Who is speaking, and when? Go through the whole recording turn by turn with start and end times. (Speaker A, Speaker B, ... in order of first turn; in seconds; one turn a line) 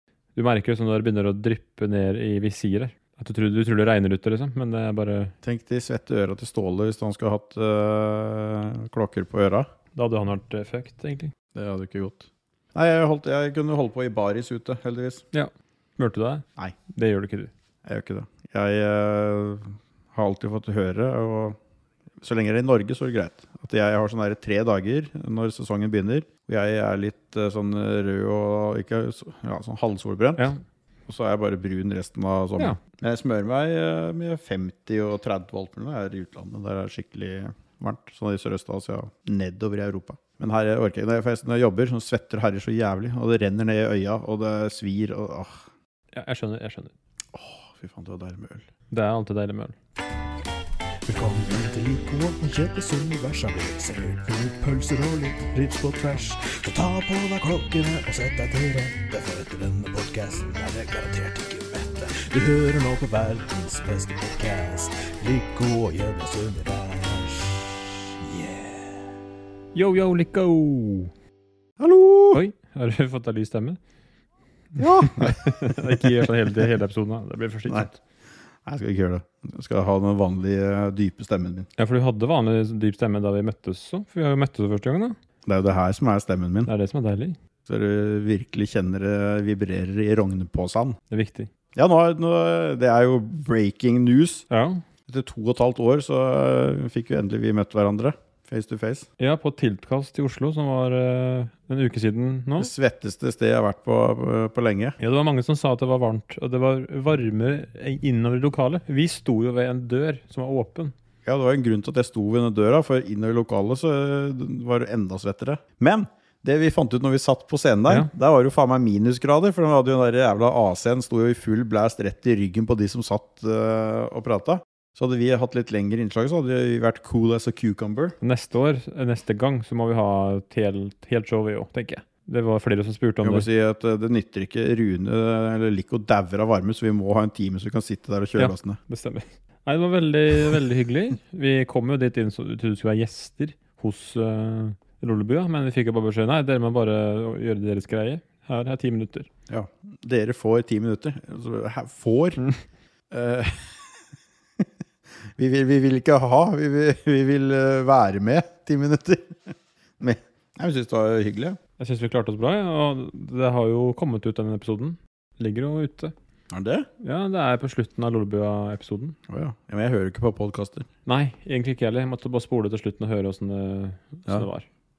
Speaker A: 0.3-5.3
Speaker B: 5.4-9.7
Speaker A: 9.9-11.3
Speaker B: 11.6-15.2
Speaker A: 15.3-17.5
Speaker B: 17.8-21.6
Speaker B: 22.2-30.5
Speaker B: 31.1-45.6
Speaker A: 46.1-46.9
Speaker B: 47.3-48.7
Speaker A: 48.9-49.8
Speaker C: 51.0-69.1
Speaker A: 69.7-71.1
Speaker B: 71.8-72.4
Speaker A: 72.3-73.8
Speaker A: 74.8-78.0
Speaker B: 74.8-76.6
Speaker B: 78.6-81.7
Speaker A: 81.8-85.2
Speaker B: 85.5-86.7
Speaker A: 86.7-87.4
Speaker B: 87.7-91.0
Speaker A: 91.1-91.5
Speaker B: 91.8-94.5
Speaker A: 94.5-94.8
Speaker B: 95.1-99.1
Speaker A: 99.2-102.7
Speaker B: 102.6-105.0
Speaker A: 105.0-110.9
Speaker B: 111.2-128.2
Speaker A: 128.2-133.5
Speaker B: 133.2-138.8
Speaker A: 138.4-149.3
Speaker B: 149.5-152.4
Speaker B: 153.1-154.0
Speaker B: 155.4-161.6
Speaker A: 161.8-166.1
Speaker B: 166.5-166.9
Speaker A: 167.0-169.2
Speaker B: 169.3-170.9
Speaker A: 171.1-174.7